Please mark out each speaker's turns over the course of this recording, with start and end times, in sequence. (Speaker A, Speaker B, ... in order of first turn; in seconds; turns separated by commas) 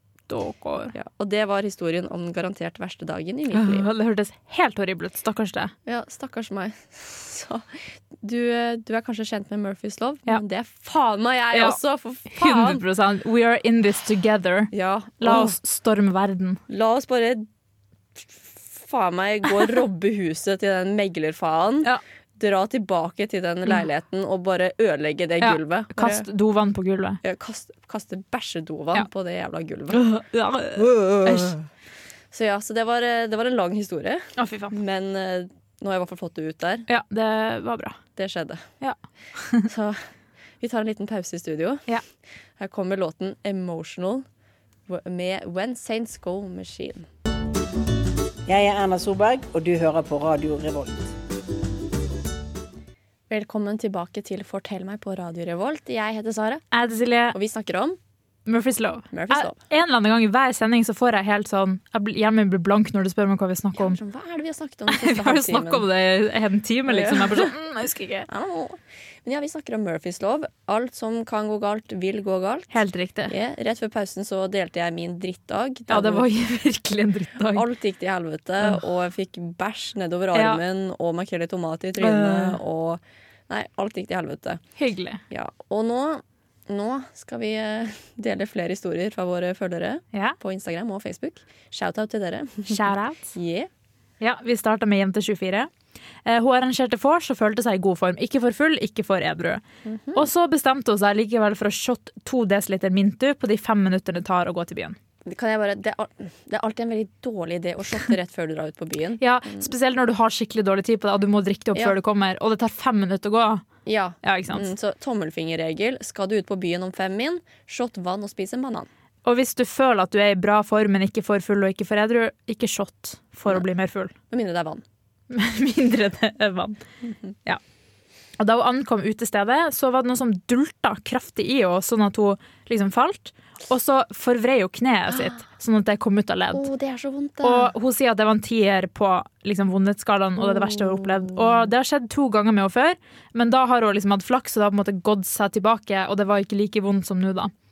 Speaker A: 0.3-0.9, Speaker B: 0.9-3.9, Speaker A: 3.5-5.7, Speaker B: 5.8-7.7, Speaker B: 8.2-12.8, Speaker A: 11.5-16.6, Speaker B: 14.7-15.6, Speaker B: 16.7-17.4, Speaker B: 18.1-26.2, Speaker A: 25.4-27.2, Speaker B: 27.2-30.0, Speaker A: 29.9-31.6, Speaker B: 30.8-31.6, Speaker B: 32.3-36.9, Speaker A: 34.4-34.7, Speaker A: 36.9-38.0, Speaker B: 38.1-38.6, Speaker A: 38.8-39.7, Speaker B: 39.7-40.0, Speaker B: 40.6-41.8, Speaker B: 42.6-44.2, Speaker B: 44.9-47.0, Speaker C: 48.5-50.9, Speaker B: 53.3-56.6, Speaker A: 56.7-57.4, Speaker B: 57.3-58.0, Speaker A: 58.5-64.0, Speaker B: 59.1-59.5, Speaker B: 63.8-65.8, Speaker A: 64.9-68.3, Speaker B: 66.9-67.5, Speaker B: 68.3-76.3, Speaker A: 72.7-73.3, Speaker A: 75.9-77.7, Speaker B: 77.5-84.6, Speaker A: 80.3-80.6, Speaker A: 82.0-82.6, Speaker A: 84.8-85.2, Speaker B: 85.3-93.7, Speaker A: 92.7-93.3, Speaker A: 94.2-95.7, Speaker A: 96.2-99.6, Speaker B: 99.8-100.3, Speaker A: 100.1-105.0, Speaker B: 105.2-109.7, Speaker A: 109.2-113.7, Speaker B: 113.8-118.9, Speaker A: 114.2-114.7, Speaker A: 119.2-124.1, Speaker B: 124.3-124.8, Speaker A: 125.3-126.8, Speaker B: 127.0-127.3, Speaker A: 128.4-136.7, Speaker B: 136.5-137.7, Speaker A: 137.4-147.5, Speaker B: 140.5-141.6